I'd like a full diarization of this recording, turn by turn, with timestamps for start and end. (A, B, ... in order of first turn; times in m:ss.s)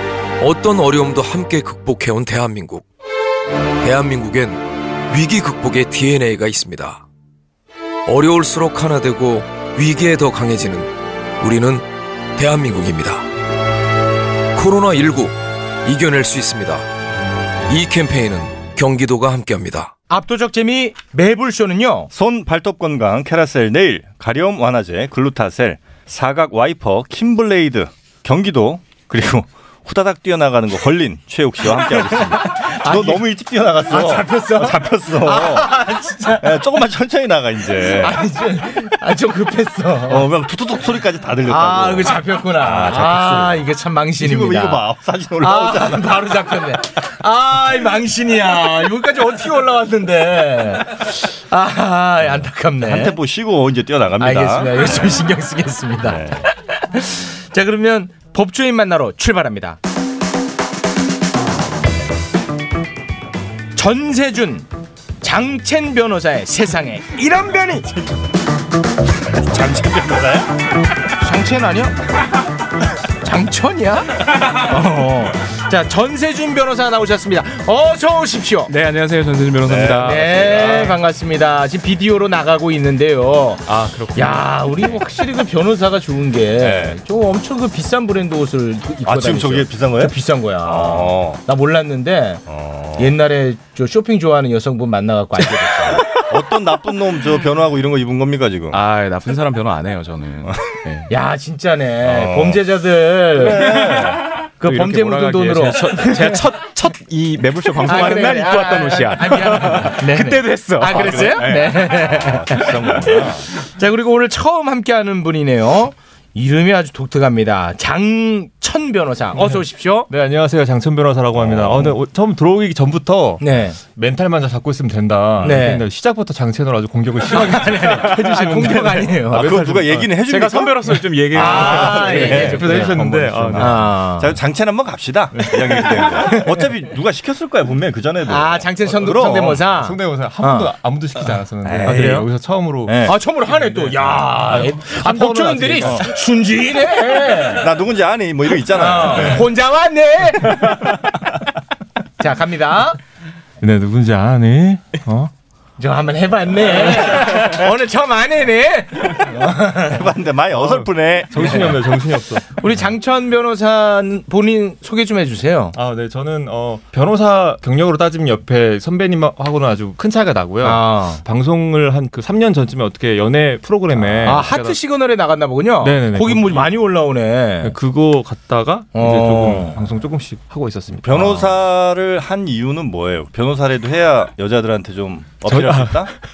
0:00.4-0:02.9 A
0:03.8-0:07.0 A
0:08.1-0:13.3 A
0:14.5-0:16.9 A
0:17.7-0:19.9 A
0:20.1-0:22.1 B
0:22.1-0:38.2 C
0:31.7-0:33.2 B
0:33.8-0:36.6 B
0:37.8-0:40.3 B
0:40.1-0:43.6 C
0:41.5-0:44.8 B
0:44.2-0:46.8 C
0:45.4-0:53.2 B
0:52.8-0:55.3 C
0:54.2-0:59.8 B
0:56.0-0:56.5 C
1:03.8-1:04.7 B
1:05.2-1:08.0 B
1:09.5-1:10.5 C
1:09.6-1:09.8 B
1:11.2-1:12.0 B
1:13.2-1:18.7 B
1:18.7-1:20.3 D
1:19.7-1:21.0 C
1:20.0-1:36.1 B
1:23.7-1:25.0 D
1:26.6-1:27.0 C
1:29.1-1:31.4 C
1:32.5-1:33.2 C
1:36.1-1:38.8 C
1:38.7-1:41.1 D
1:41.1-1:44.1 B
1:42.0-1:42.6 C
1:43.4-1:44.2 C
1:44.6-1:46.5 B
1:44.6-1:51.8 D
1:47.8-2:00.1 B
1:50.9-1:53.5 C
1:59.3-2:10.2 E
2:01.4-2:01.9 C
2:03.4-2:03.8 B
2:05.4-2:05.7 C
2:05.4-2:05.9 B
2:07.3-2:09.6 B
2:09.3-2:19.7 C
2:10.2-2:13.6 D
2:11.3-2:13.0 B
2:11.4-2:14.0 E
2:13.6-2:14.4 B
2:15.3-2:15.8 E
2:15.7-2:16.7 B
2:18.3-2:20.7 B
2:19.7-2:26.1 E
2:21.6-2:22.2 C
2:21.8-2:22.3 B
2:22.9-2:23.2 C
2:23.0-2:27.7 B
2:27.5-2:29.5 C
2:28.7-2:30.9 B
2:32.2-2:33.0 B
2:33.6-2:35.3 E
2:35.8-2:40.0 B
2:39.9-2:41.8 C
2:40.6-2:42.5 E
2:41.4-2:41.7 B
2:42.6-2:45.8 B
2:45.7-2:54.8 E
2:50.6-2:51.2 B
2:54.2-2:57.8 B
2:55.8-2:56.7 E
2:57.6-3:01.5 E
2:58.9-2:59.8 B
3:01.0-3:06.1 C
3:05.5-3:06.2 E